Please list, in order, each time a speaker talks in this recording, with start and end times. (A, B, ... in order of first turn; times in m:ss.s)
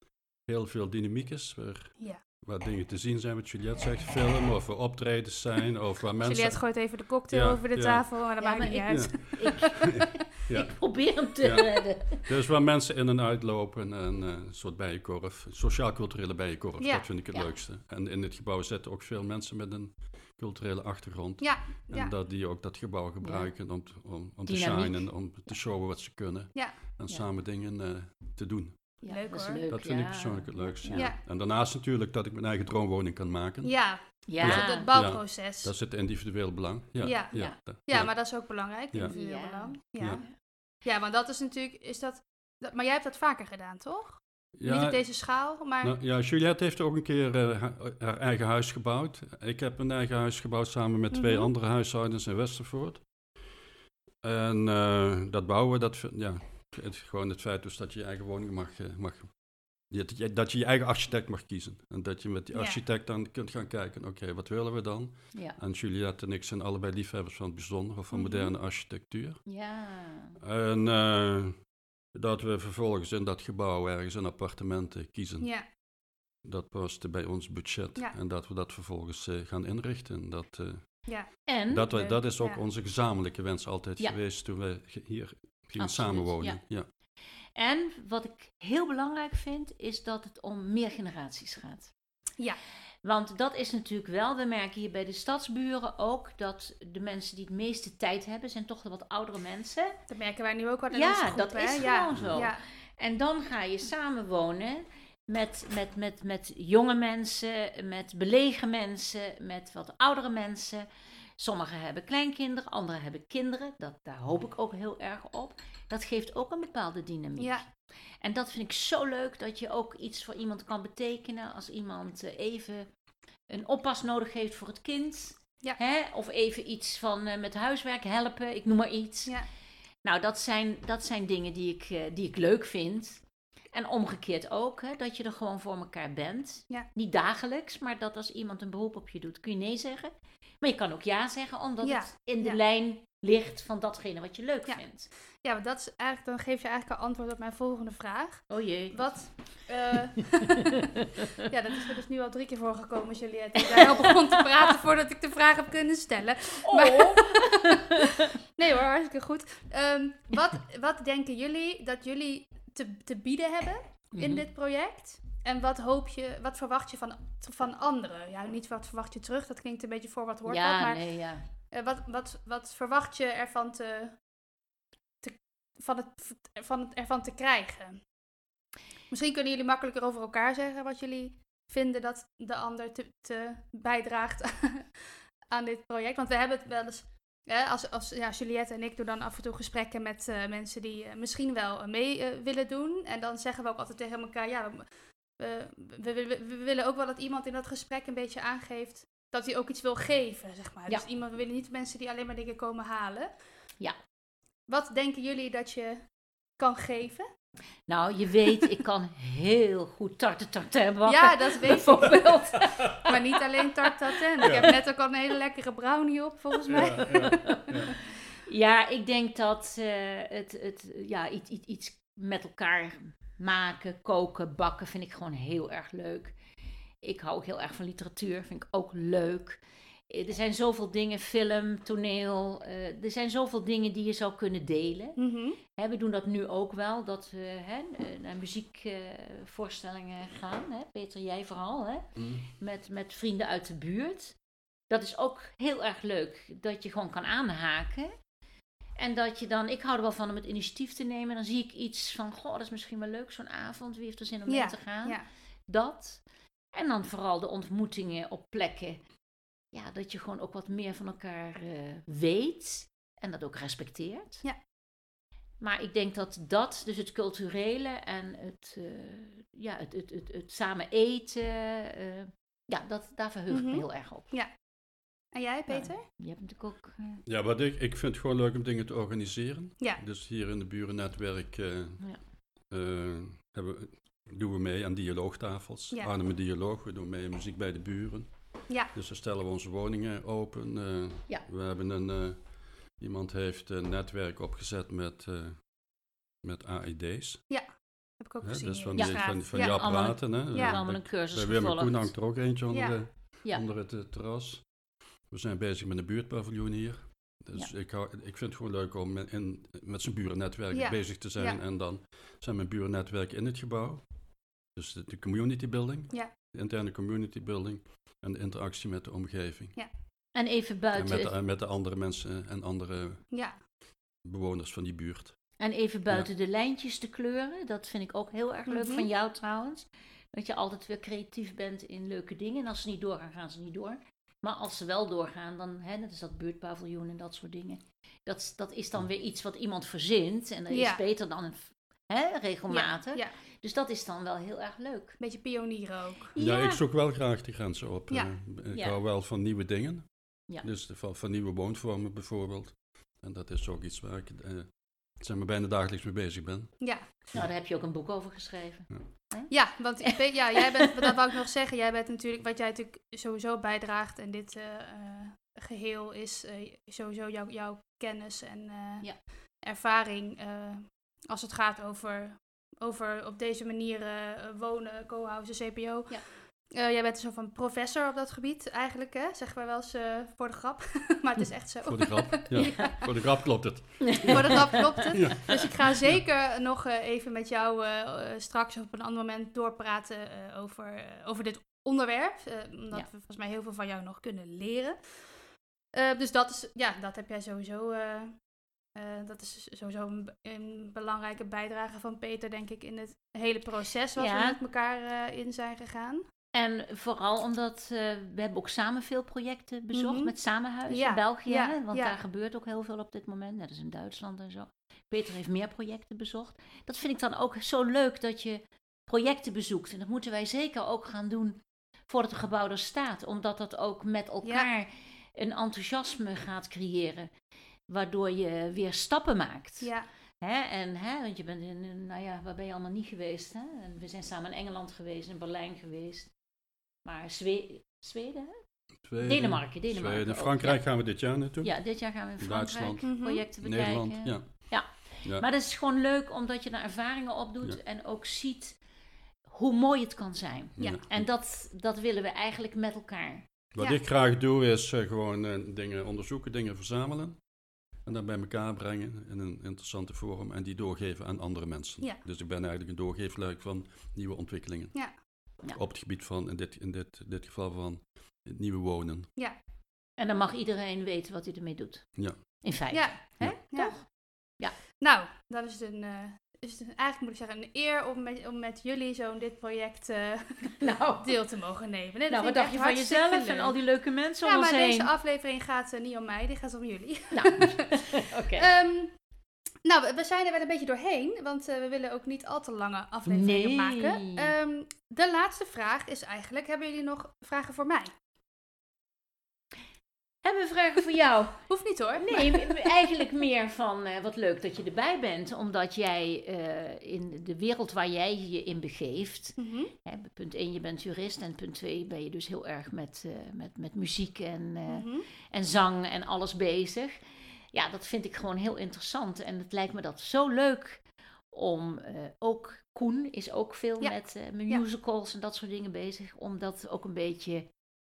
0:00.5-0:06.6 A
0:06.2-0:09.6 B
0:07.3-0:08.0 A
0:08.4-0:12.3 C
0:08.9-0:10.8 A
0:11.4-0:28.9 A
0:16.8-0:17.1 B
0:21.4-0:22.1 B
0:23.2-0:23.5 C
0:24.4-0:25.1 C
0:29.0-0:29.6 B
0:29.0-0:31.1 C
0:29.7-0:33.8 A
0:30.9-0:31.2 B
0:33.6-0:35.7 B
0:34.3-0:34.9 C
0:34.4-0:38.1 A
0:37.0-0:40.3 B
0:39.1-0:40.3 C
0:40.0-0:40.2 A
0:40.8-0:46.0 B
0:44.5-0:45.0 A
0:45.8-0:53.0 A
0:51.1-0:51.5 B
0:54.2-1:09.4 A
1:02.5-1:02.8 B
1:05.3-1:05.6 C
1:08.1-1:08.5 B
1:09.4-1:10.4 C
1:10.4-1:15.5 A
1:16.4-1:21.1 A
1:21.0-1:21.4 B
1:21.4-1:22.1 C
1:21.7-1:26.8 A
1:21.9-1:22.6 B
1:25.8-1:26.6 C
1:27.6-1:31.9 C
1:33.0-1:39.9 C
1:40.1-1:42.6 B
1:40.9-1:50.8 C
1:42.1-1:42.4 A
1:51.4-1:57.6 C
1:57.4-1:57.6 B
1:58.2-2:02.9 C
2:03.5-2:09.4 C
2:10.0-2:25.1 C
2:21.8-2:22.6 B
2:25.4-2:51.0 B
2:28.5-2:29.0 C
2:30.4-2:31.3 C
2:33.6-2:34.3 C
2:36.6-2:38.2 C
2:44.1-2:44.4 C
2:50.4-2:51.4 C
2:51.7-2:54.2 B
2:55.2-2:58.0 B
2:59.1-3:04.9 B
3:05.5-3:14.8 B
3:15.4-3:23.3 B
3:24.7-3:26.0 B
3:26.6-3:27.3 B
3:27.9-3:33.1 C
3:31.1-3:37.8 B
3:34.4-3:34.7 A
3:36.7-3:37.9 A
3:37.0-3:37.7 C
3:38.4-3:46.4 C
3:47.0-3:55.2 C
3:55.2-3:55.6 B
3:55.7-4:02.0 C
4:02.2-4:02.4 A
4:02.6-4:04.4 C
4:04.9-4:08.1 C
4:09.0-4:16.2 C
4:14.5-4:15.2 B
4:16.7-4:19.0 C
4:19.7-4:24.4 C
4:25.6-4:34.3 C
4:33.5-4:34.5 B
4:35.3-4:36.0 B
4:35.7-4:37.2 C
4:37.2-4:42.0 A
4:42.7-4:48.3 A
4:48.9-4:55.8 A
4:56.4-4:57.4 A
4:58.2-5:00.8 B
4:58.4-5:04.7 A
4:59.0-5:02.1 C
5:02.7-5:03.0 B
5:05.3-5:14.1 A
5:10.7-5:11.6 B
5:14.7-5:19.8 A
5:20.3-5:21.3 C
5:20.9-5:23.2 A
5:23.3-5:23.6 B
5:24.2-5:25.4 A
5:25.6-5:45.2 C
5:28.7-5:29.1 B
5:40.7-5:41.0 B
5:42.7-5:43.3 B
5:45.2-5:46.3 B
5:46.3-5:46.8 C
5:46.4-5:56.8 A
5:56.8-5:57.1 B
5:57.3-6:01.1 C
5:59.5-6:23.2 B
6:21.8-6:26.2 A
6:22.6-6:22.9 C
6:24.0-6:25.6 C
6:24.2-6:35.0 B
6:35.9-6:38.4 B
6:38.9-6:46.2 B
6:44.2-6:44.6 C
6:46.5-7:07.3 C
6:49.9-6:50.3 B
6:50.9-6:52.2 B
7:04.4-7:04.7 B
7:07.9-7:16.3 C
7:17.0-7:18.6 C
7:19.0-7:21.7 A
7:19.2-7:20.8 C
7:21.6-7:28.8 C
7:22.4-7:23.0 A
7:23.0-7:23.4 B
7:23.6-7:25.5 A
7:29.5-7:33.5 C
7:30.8-7:31.3 A
7:33.7-7:37.4 A
7:38.0-7:45.0 A
7:45.6-7:49.3 A
7:50.2-7:54.8 C
7:52.9-7:54.1 B
7:55.0-8:03.8 B
8:00.8-8:01.4 C
8:02.3-8:05.1 C
8:04.4-8:09.1 B
8:07.3-8:08.7 C
8:09.8-8:18.1 B
8:13.2-8:14.5 C
8:20.4-8:21.6 C
8:21.7-8:22.8 B
8:22.2-8:37.2 C
8:29.6-8:29.9 B
8:34.9-8:35.2 B
8:37.7-8:47.7 C